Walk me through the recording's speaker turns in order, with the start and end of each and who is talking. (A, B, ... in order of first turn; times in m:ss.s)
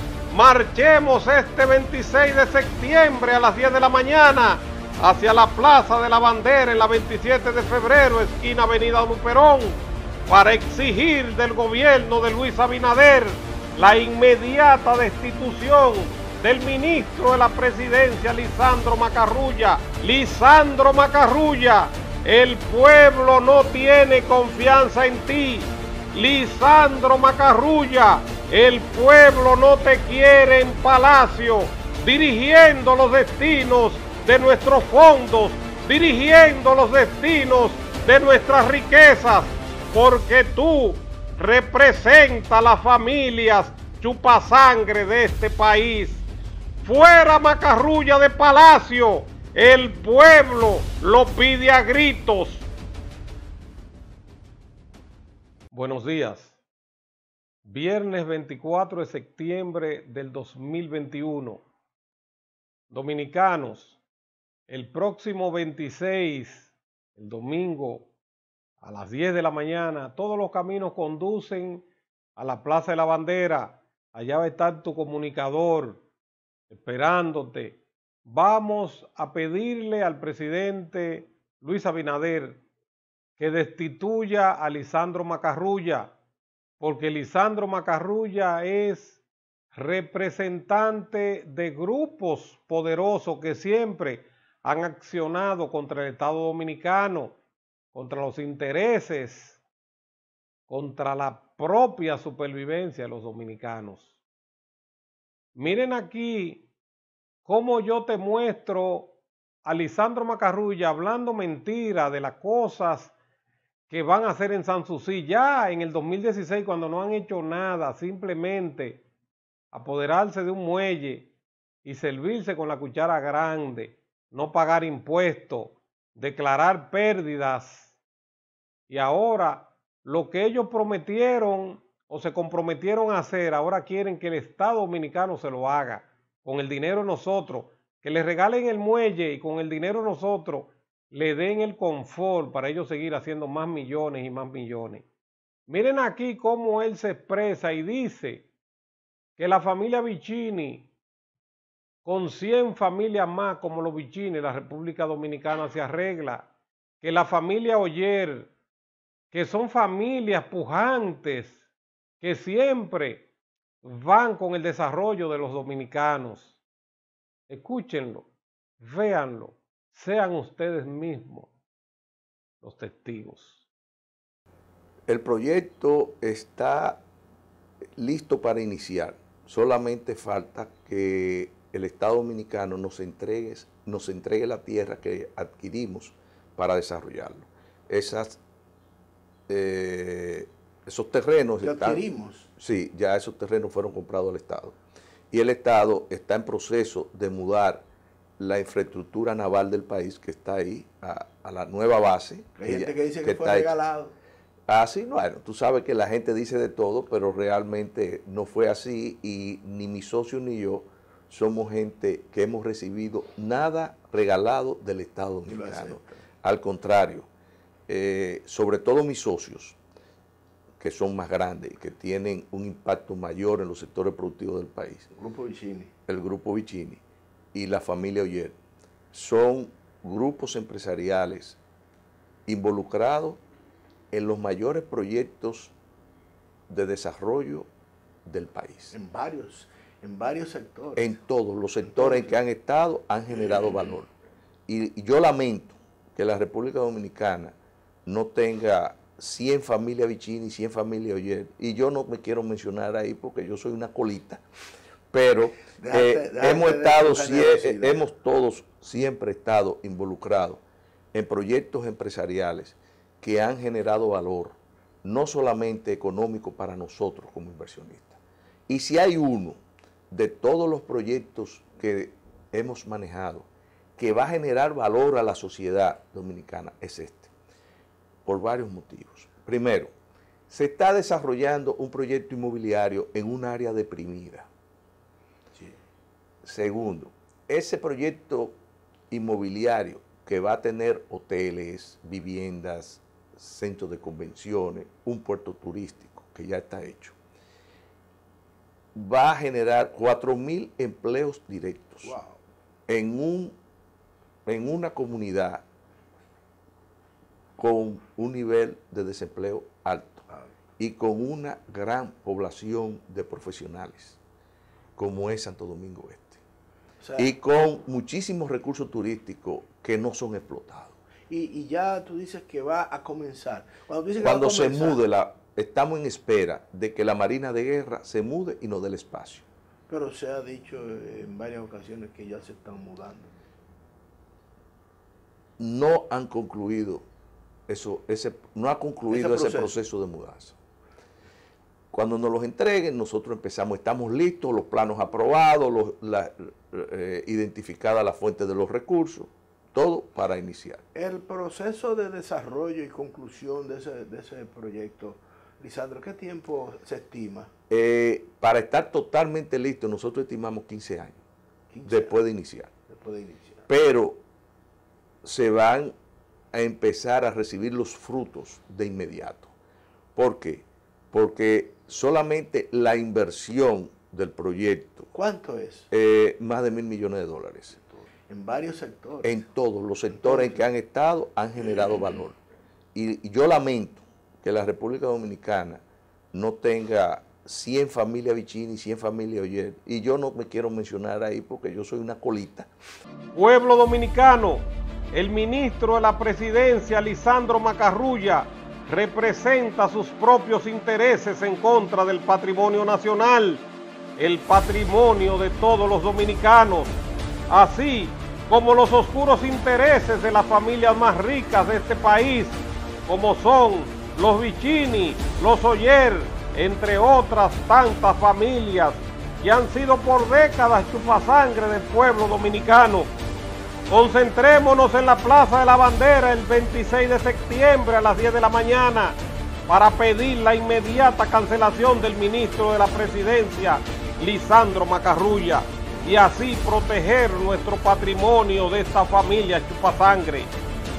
0:00.3-0:46.2 A
0:46.8-0:52.7 A
0:55.7-0:56.6 A
0:57.6-1:01.6 A
1:02.9-1:04.0 A
1:04.7-1:08.1 A
1:08.8-1:16.0 A
1:16.7-1:22.6 A
1:23.4-1:26.1 A
1:26.8-1:29.2 A
1:29.7-1:37.3 A
1:37.9-1:39.6 A
1:40.7-1:44.1 A
1:45.6-1:46.6 A
1:47.4-1:53.1 A
1:53.9-1:59.0 A
1:59.7-2:01.3 A
2:01.8-2:07.9 A
2:08.9-2:25.0 A
2:25.7-2:28.5 A
2:29.4-2:30.9 A
2:32.0-2:36.5 A
2:37.0-2:38.5 A
2:39.3-2:41.6 A
2:42.2-2:43.2 A
2:43.8-2:46.5 A
2:47.5-2:48.3 A
2:48.8-2:51.5 A
2:52.6-2:53.6 A
2:55.1-2:57.0 B
2:58.0-3:08.4 B
3:09.5-3:12.0 B
3:11.6-3:12.5 C
3:12.6-3:14.8 B
3:15.3-3:17.8 B
3:18.4-3:23.7 B
3:22.6-3:24.1 C
3:24.7-3:37.3 B
3:35.5-3:36.2 C
3:37.9-3:39.8 B
3:40.8-3:45.1 B
3:45.2-3:45.9 C
3:46.1-3:47.0 B
3:47.5-3:48.6 B
3:49.1-3:51.6 B
3:52.5-3:53.4 B
3:54.1-3:55.7 B
3:56.7-3:57.7 B
3:58.2-3:58.9 B
3:58.9-4:01.1 C
4:01.0-4:04.1 B
4:01.8-4:02.4 C
4:03.4-4:03.8 C
4:04.7-4:14.4 B
4:15.1-4:20.6 B
4:15.8-4:18.0 C
4:21.1-4:29.6 B
4:30.1-4:37.3 B
4:38.2-4:39.9 B
4:40.5-4:44.5 B
4:46.4-4:48.6 B
4:49.1-4:57.2 B
4:58.9-5:02.1 B
5:02.0-5:02.4 C
5:02.9-5:03.6 B
5:04.4-5:05.6 B
5:07.6-5:10.2 B
5:10.8-5:14.2 B
5:15.0-5:16.4 B
5:17.0-5:17.3 C
5:17.2-5:21.0 B
5:21.3-5:25.0 C
5:24.2-5:29.4 B
5:29.9-5:33.3 C
5:35.6-5:37.0 B
5:37.7-5:40.6 B
5:39.1-5:39.8 C
5:41.9-5:50.8 B
5:50.9-5:57.5 C
5:57.7-6:01.2 B
6:01.7-6:02.2 C
6:01.8-6:02.7 B
6:02.9-6:03.7 C
6:03.7-6:04.2 B
6:05.2-6:05.9 B
6:06.5-6:09.5 B
6:10.1-6:15.1 B
6:15.1-6:15.9 C
6:15.9-6:17.8 B
6:17.8-6:19.4 C
6:19.2-6:22.4 B
6:20.1-6:20.6 C
6:22.9-6:32.7 B
6:33.3-6:43.6 A
6:44.2-6:47.0 A
6:47.5-7:03.1 A
7:03.9-7:20.5 A